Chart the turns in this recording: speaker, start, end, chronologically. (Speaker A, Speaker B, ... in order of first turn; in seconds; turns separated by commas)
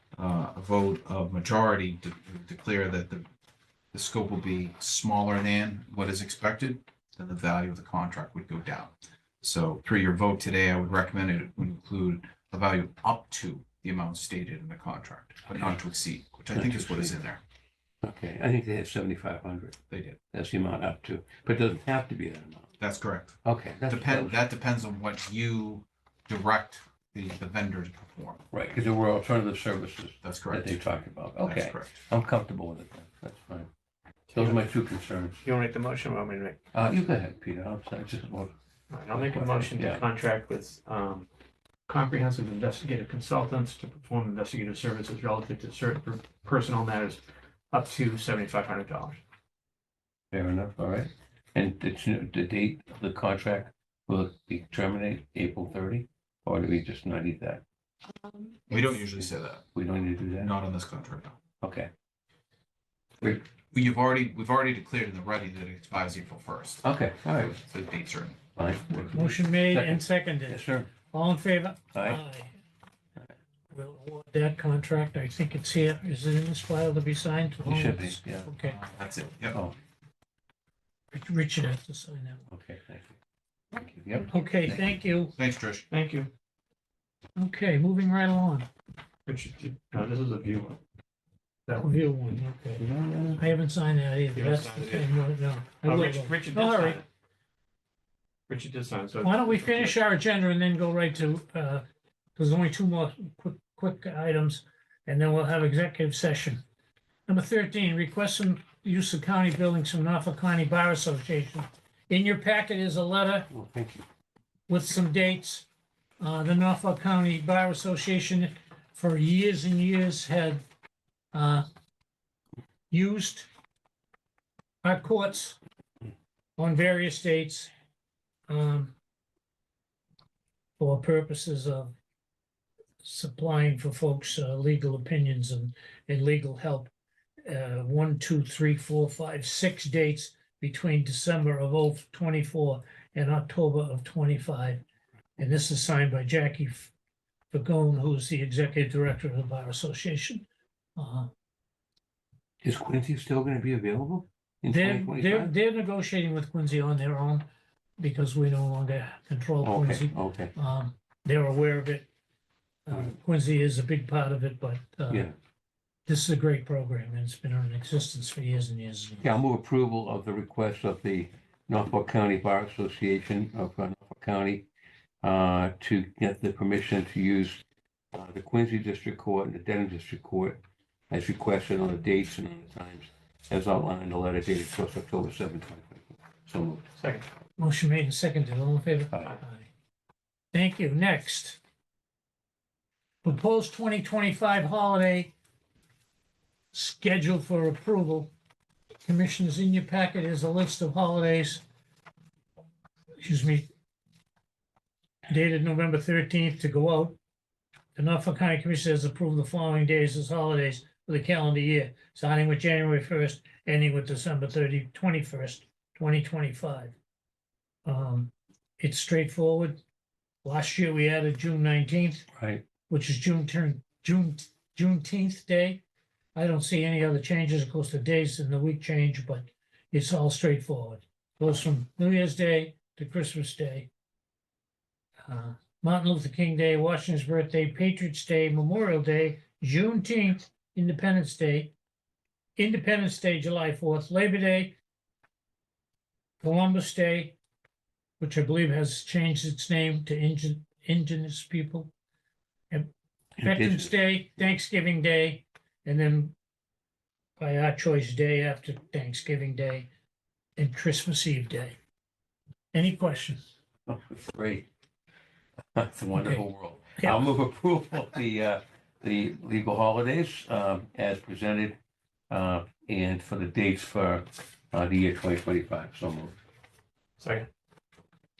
Speaker A: 0.1-3.3, Speaker A: 3.9-17.4, Speaker B: 16.5-17.2, Speaker B: 18.0-19.8, Speaker A: 19.9-20.2, Speaker B: 20.3-22.7, Speaker A: 22.8-28.4, Speaker B: 23.4-24.4, Speaker B: 28.5-33.7, Speaker A: 30.2-30.8, Speaker A: 31.4-32.0, Speaker C: 34.3-34.6, Speaker B: 34.3-35.4, Speaker C: 35.4-36.6, Speaker B: 36.7-38.5, Speaker C: 38.9-41.3, Speaker B: 39.1-40.0, Speaker C: 41.9-49.2, Speaker B: 50.3-57.6, Speaker C: 58.2-58.5, Speaker A: 58.7-59.6, Speaker B: 59.7-60.5, Speaker A: 60.4-61.4, Speaker B: 61.6-61.9, Speaker A: 63.2-66.8, Speaker B: 66.8-67.5, Speaker A: 67.4-68.4, Speaker B: 68.6-70.9, Speaker D: 69.0-72.5, Speaker B: 71.9-72.2, Speaker D: 73.7-78.8, Speaker B: 77.6-78.5, Speaker A: 78.6-79.6, Speaker D: 81.1-82.4, Speaker B: 82.5-83.2, Speaker B: 83.7-84.7, Speaker D: 84.3-85.3, Speaker A: 85.3-85.9, Speaker C: 85.9-86.3, Speaker D: 87.4-88.7, Speaker C: 89.3-90.8, Speaker D: 91.7-92.8, Speaker B: 92.8-93.5, Speaker D: 93.4-97.0, Speaker C: 94.3-95.1, Speaker C: 95.8-97.1, Speaker C: 98.5-100.0, Speaker D: 99.2-101.8, Speaker D: 102.4-106.6, Speaker D: 107.3-113.5, Speaker B: 113.5-114.1, Speaker D: 114.7-115.7, Speaker D: 116.2-120.6, Speaker D: 121.3-121.7, Speaker D: 122.9-123.5, Speaker D: 124.8-125.6, Speaker D: 126.6-127.7, Speaker D: 128.5-128.9, Speaker D: 130.8-131.9, Speaker D: 133.0-136.9, Speaker D: 137.5-144.8, Speaker D: 145.4-146.9, Speaker D: 147.5-150.5, Speaker D: 151.0-151.3, Speaker B: 152.6-155.5, Speaker D: 154.7-157.5, Speaker D: 158.0-162.1, Speaker B: 159.6-160.5, Speaker D: 162.9-165.3, Speaker B: 165.1-165.3, Speaker D: 166.1-169.3, Speaker B: 169.2-174.7, Speaker B: 175.2-177.6, Speaker B: 178.1-180.6, Speaker B: 181.1-186.8, Speaker C: 187.0-187.3, Speaker D: 187.6-189.7, Speaker D: 190.5-191.6, Speaker D: 193.2-195.3, Speaker D: 196.7-198.3, Speaker D: 199.1-201.6, Speaker D: 203.2-203.7, Speaker D: 205.3-207.2, Speaker D: 207.9-216.9, Speaker D: 217.8-219.8, Speaker D: 220.4-222.3, Speaker B: 222.3-222.7, Speaker D: 222.9-225.8, Speaker D: 226.3-233.9, Speaker D: 235.3-241.7, Speaker D: 242.6-244.8, Speaker D: 246.4-247.4, Speaker D: 248.2-251.9, Speaker D: 252.7-256.4, Speaker B: 253.4-253.9, Speaker D: 257.4-259.9, Speaker D: 260.6-261.8, Speaker D: 262.7-263.6, Speaker B: 263.9-264.7, Speaker B: 265.8-271.8, Speaker D: 266.1-266.4, Speaker B: 272.3-276.4, Speaker C: 277.2-277.5